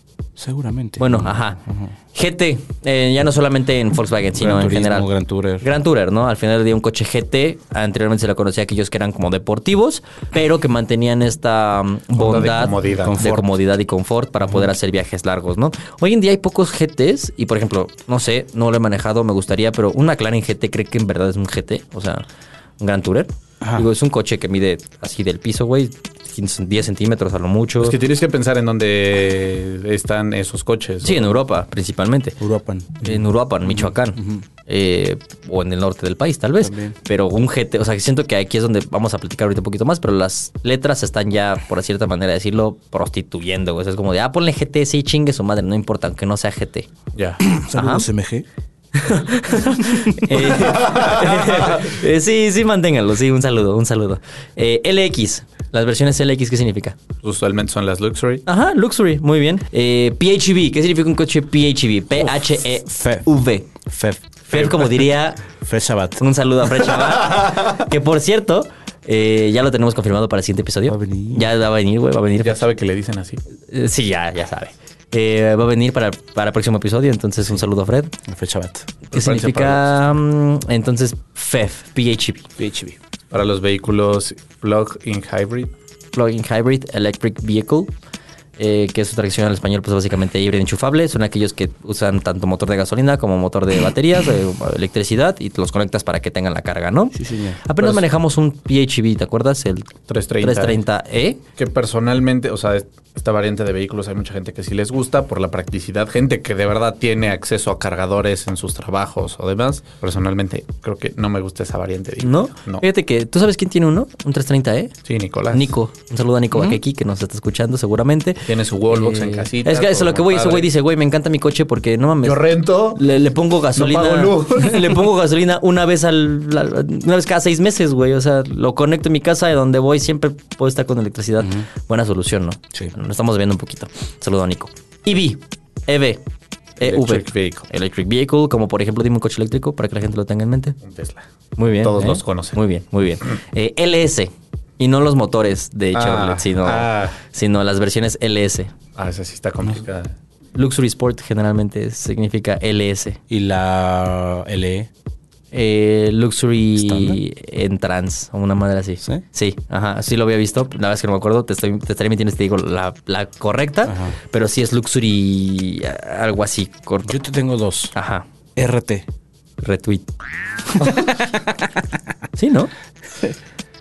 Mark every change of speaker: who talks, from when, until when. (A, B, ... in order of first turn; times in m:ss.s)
0:00.4-0:01.9 A
0:01.0-0:01.6 B
0:02.1-0:05.1 B
0:04.4-0:05.7 A
0:05.6-0:22.2 B
0:12.1-0:13.3 C
0:13.0-0:13.4 A
0:22.8-0:28.0 B
0:23.6-0:23.9 A
0:27.8-0:31.4 C
0:31.0-0:32.4 B
0:32.4-0:34.4 A
0:33.0-0:46.9 B
0:36.6-0:37.0 A
0:47.1-0:47.4 C
0:47.4-0:48.4 A
0:47.7-0:48.0 B
0:49.0-0:57.0 B
0:49.9-0:50.4 A
0:50.7-0:51.7 C
0:57.2-0:58.4 C
0:58.4-1:03.7 B
1:02.2-1:04.7 A
1:04.5-1:05.4 B
1:05.6-1:06.2 A
1:06.2-1:12.6 B
1:10.9-1:11.5 A
1:12.4-1:13.4 C
1:13.7-1:18.1 B
1:18.2-1:18.9 A
1:19.1-1:22.4 B
1:19.1-1:19.9 C
1:22.6-1:23.0 A
1:23.3-1:25.7 C
1:26.1-1:27.9 B
1:28.6-1:41.4 B
1:37.1-1:37.6 A
1:37.8-1:38.0 C
1:40.1-1:40.8 C
1:41.6-1:52.8 C
1:52.2-1:54.9 B
1:55.0-1:55.7 C
1:55.5-2:16.2 B
1:58.5-2:00.7 C
2:02.2-2:03.0 C
2:03.7-2:05.0 C
2:11.4-2:11.7 A
2:16.8-2:20.8 B
2:16.8-2:17.7 C
2:20.8-2:22.6 C
2:21.6-2:28.7 B
2:25.9-2:27.2 C
2:29.0-2:30.1 C
2:30.5-2:33.2 B
2:33.3-2:34.9 A
2:35.5-2:47.2 B
2:36.8-2:37.2 A
2:43.8-2:44.2 A
2:47.0-2:47.9 A
2:47.9-2:48.2 B
2:48.6-2:49.1 A
2:49.6-2:50.1 B
2:50.8-2:52.1 A
2:52.4-2:52.7 B